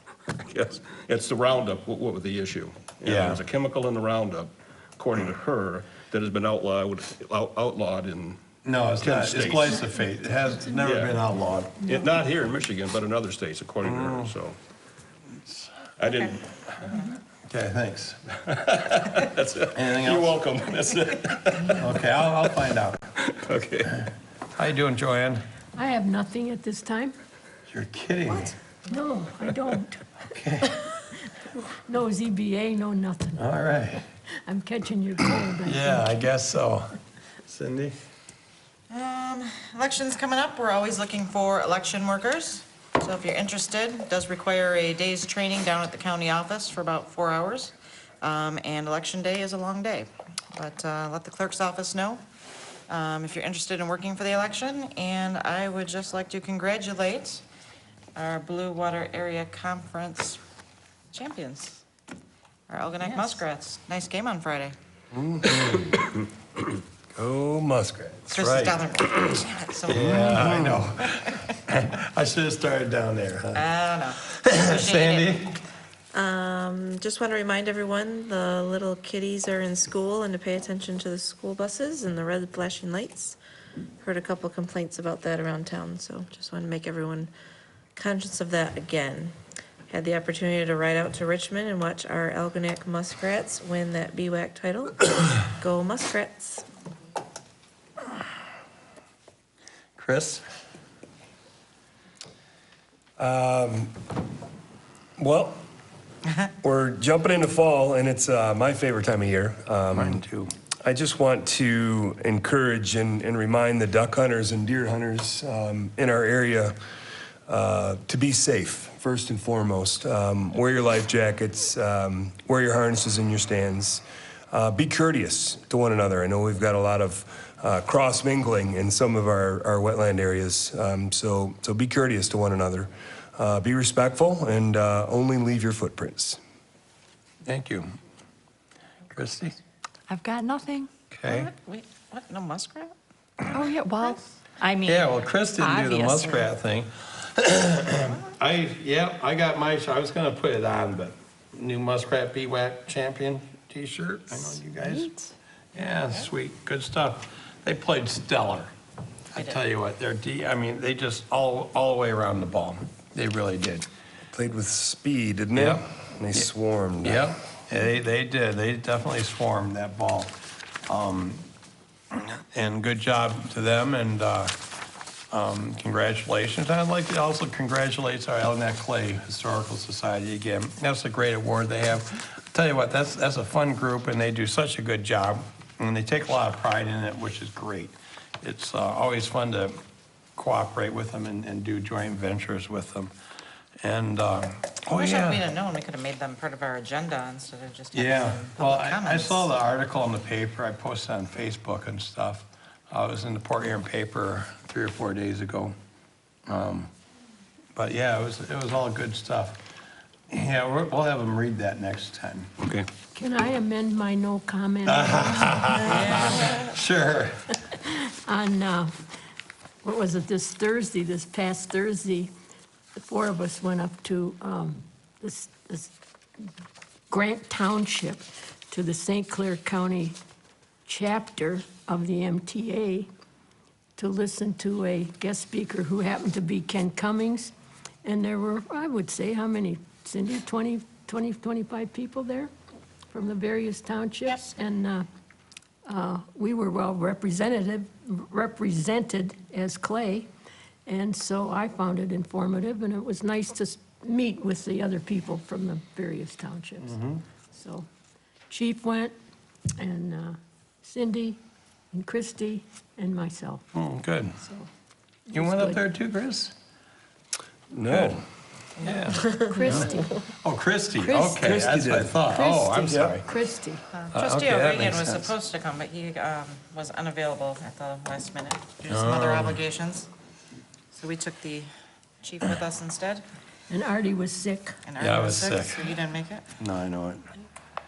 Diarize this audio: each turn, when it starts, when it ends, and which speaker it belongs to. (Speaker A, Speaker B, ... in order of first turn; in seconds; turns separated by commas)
Speaker A: 0.4-8.4, Speaker B: 3.0-3.4, Speaker B: 8.6-11.9, Speaker A: 9.0-10.0, Speaker A: 10.8-11.2, Speaker A: 11.8-14.6, Speaker B: 13.8-14.3, Speaker A: 16.0-17.0, Speaker C: 16.1-17.1, Speaker B: 17.4-18.2, Speaker A: 18.5-22.6, Speaker B: 19.7-20.5, Speaker B: 21.8-23.1, Speaker A: 23.2-24.0, Speaker B: 24.6-25.4, Speaker D: 25.7-27.2, Speaker B: 27.7-28.6, Speaker D: 28.9-30.2, Speaker B: 30.3-30.7, Speaker D: 31.4-33.5, Speaker B: 33.4-34.1, Speaker D: 34.5-36.1, Speaker B: 35.6-38.0, Speaker C: 38.9-52.2, Speaker C: 52.9-57.4, Speaker C: 58.2-60.4, Speaker C: 61.1-61.8, Speaker C: 62.7-64.8, Speaker E: 65.1-66.1, Speaker E: 67.2-68.2, Speaker C: 68.3-70.3, Speaker B: 68.4-68.8, Speaker B: 69.8-75.6, Speaker E: 70.1-70.8, Speaker C: 73.5-75.3, Speaker F: 76.1-83.4, Speaker F: 84.0-87.3, Speaker F: 88.0-89.3, Speaker F: 89.9-96.7, Speaker B: 100.0-100.4, Speaker E: 103.2-103.9, Speaker E: 105.2-105.6, Speaker E: 106.6-110.2, Speaker B: 109.9-110.5, Speaker E: 110.8-116.8, Speaker E: 117.5-136.4, Speaker B: 137.4-137.9, Speaker B: 139.1-139.6, Speaker G: 140.1-140.9, Speaker B: 141.1-141.5, Speaker C: 141.3-142.9, Speaker G: 143.5-146.4, Speaker B: 144.8-155.2, Speaker B: 155.8-158.7, Speaker B: 159.3-163.9, Speaker C: 159.3-159.6, Speaker E: 164.3-167.3, Speaker B: 165.6-165.8, Speaker B: 167.0-171.5, Speaker B: 172.1-174.6, Speaker B: 175.3-189.8, Speaker B: 190.4-193.2, Speaker B: 193.8-195.5, Speaker C: 194.9-199.5, Speaker B: 197.9-205.8, Speaker B: 206.5-206.9, Speaker B: 207.7-209.6, Speaker B: 210.3-212.5, Speaker D: 213.2-216.5, Speaker B: 214.9-217.5, Speaker D: 217.7-219.1, Speaker D: 219.8-222.3, Speaker D: 223.0-225.9, Speaker D: 227.1-230.2, Speaker D: 230.9-233.1, Speaker D: 234.0-237.5, Speaker D: 238.1-242.5, Speaker D: 243.1-245.1, Speaker D: 245.9-250.3, Speaker D: 250.9-257.0, Speaker B: 256.8-257.2, Speaker D: 257.5-257.9, Speaker D: 258.5-259.1, Speaker D: 259.8-261.4, Speaker D: 261.9-263.7, Speaker B: 263.7-264.4, Speaker D: 264.4-264.7, Speaker D: 265.3-265.8, Speaker B: 265.3-266.6, Speaker E: 267.7-268.2, Speaker B: 267.8-268.2, Speaker C: 268.8-269.1, Speaker B: 268.8-273.3, Speaker D: 269.3-270.2, Speaker D: 271.0-271.5, Speaker E: 271.4-272.2, Speaker D: 272.3-273.8, Speaker E: 272.9-273.2, Speaker C: 273.9-280.1, Speaker B: 274.1-275.3, Speaker B: 278.9-279.6, Speaker C: 280.9-281.7, Speaker C: 282.2-283.2, Speaker D: 283.7-284.8, Speaker C: 284.9-286.4, Speaker B: 285.0-286.0, Speaker B: 286.6-287.3